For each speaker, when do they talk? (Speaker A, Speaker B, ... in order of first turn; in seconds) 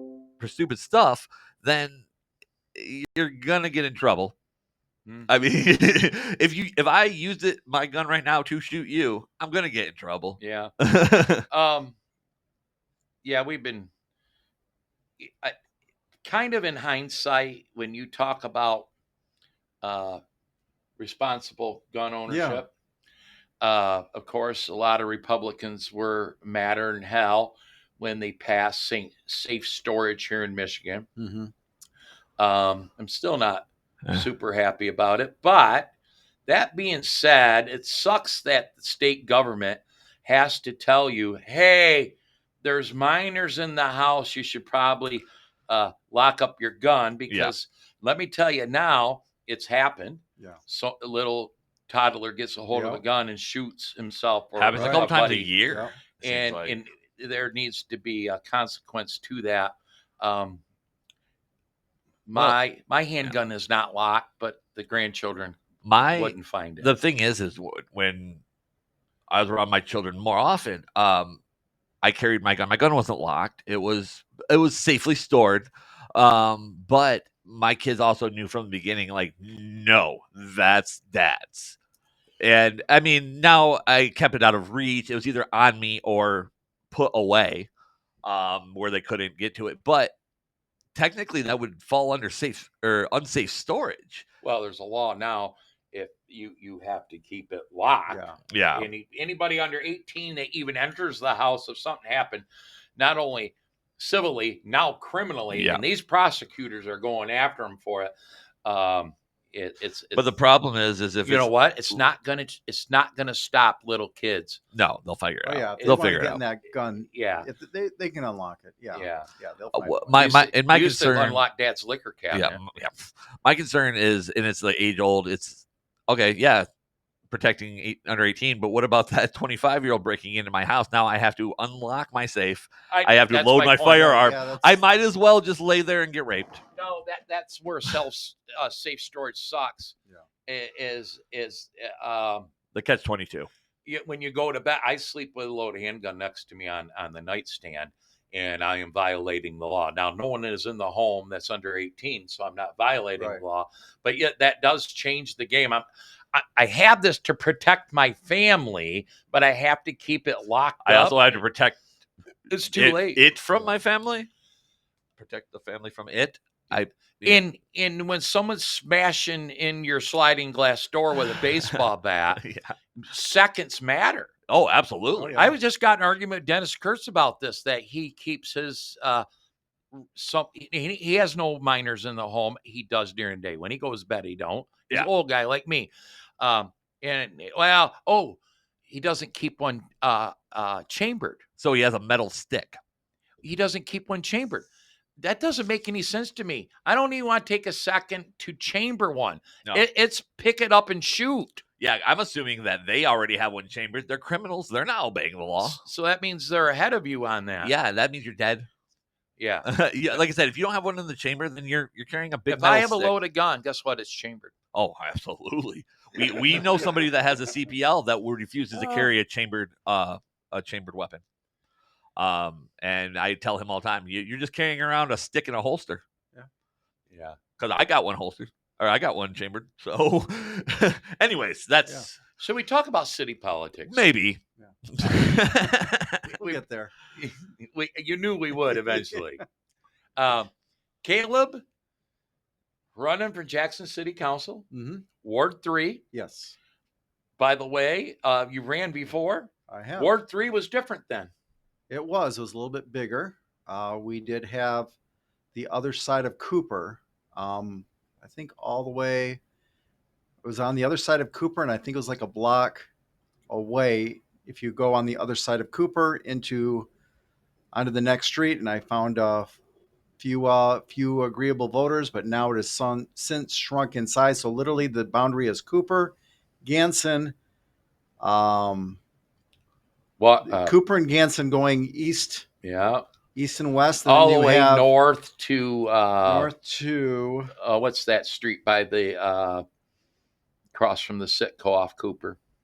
Speaker A: 0.4-2.0, 2.8-4.3, 5.3-11.4, 54.5-56.7, 65.8-68.4, 69.3-71.4, 72.0-81.8, 82.4-87.7, 88.2-90.1, 91.0-94.2, 98.5-98.9, 105.5-105.8, 110.1-111.5, 114.7-116.4, 119.7-121.4, 122.3-126.7, 127.3-136.6, 142.7-143.5, 160.8-161.8, 162.7-164.3, 165.2-167.4, 172.4-172.7, 174.5-175.4, 191.6-192.8, 201.8-205.8, 207.6-208.7, 209.6-213.1, 214.7-221.2, 222.2-226.0, 227.6-232.2, 233.9-236.2
Speaker B: 10.4-10.7, 11.5-12.0, 13.2-13.9, 15.2-15.6, 16.2-18.9, 19.8-20.2, 21.0-22.7, 23.6-31.1, 32.4-35.9, 36.5-60.6, 62.3-65.6, 66.1-66.9, 94.4-108.1, 108.6-110.4, 111.2-114.6, 115.8-116.1, 117.0-117.5, 118.9-119.3, 120.1-122.6, 132.9-134.2, 136.8-139.9, 140.5-142.5, 143.8-161.2, 162.5-163.2, 167.2-172.4, 173.0-174.3, 175.3-179.2, 179.9-191.4, 193.4-194.7, 195.2-201.6, 205.6-207.7, 209.4-210.2, 212.5-214.5, 227.1-227.4, 232.4-234.0, 237.1-239.4, 240.2-240.5, 241.0-241.6, 242.9-244.7, 245.2-246.0, 247.4-251.3, 280.2-280.7, 282.6-283.0, 284.0-286.5, 287.6-289.6, 290.7-292.4
Speaker C: 22.3-22.6, 31.2-31.5, 52.7-53.0, 54.8-55.2, 98.1-98.3, 115.5-120.3, 133.9-134.8, 153.2-153.4, 175.2-175.5, 234.6-235.4, 236.2-236.9, 238.7-239.2, 244.7-245.1, 246.1-246.6, 249.7-250.2, 251.9-254.9, 255.5-259.4, 260.4-262.9, 263.5-266.9, 267.7-269.6, 270.2-277.4, 278.2-279.0, 280.4-282.4, 283.3-284.9, 286.2-287.5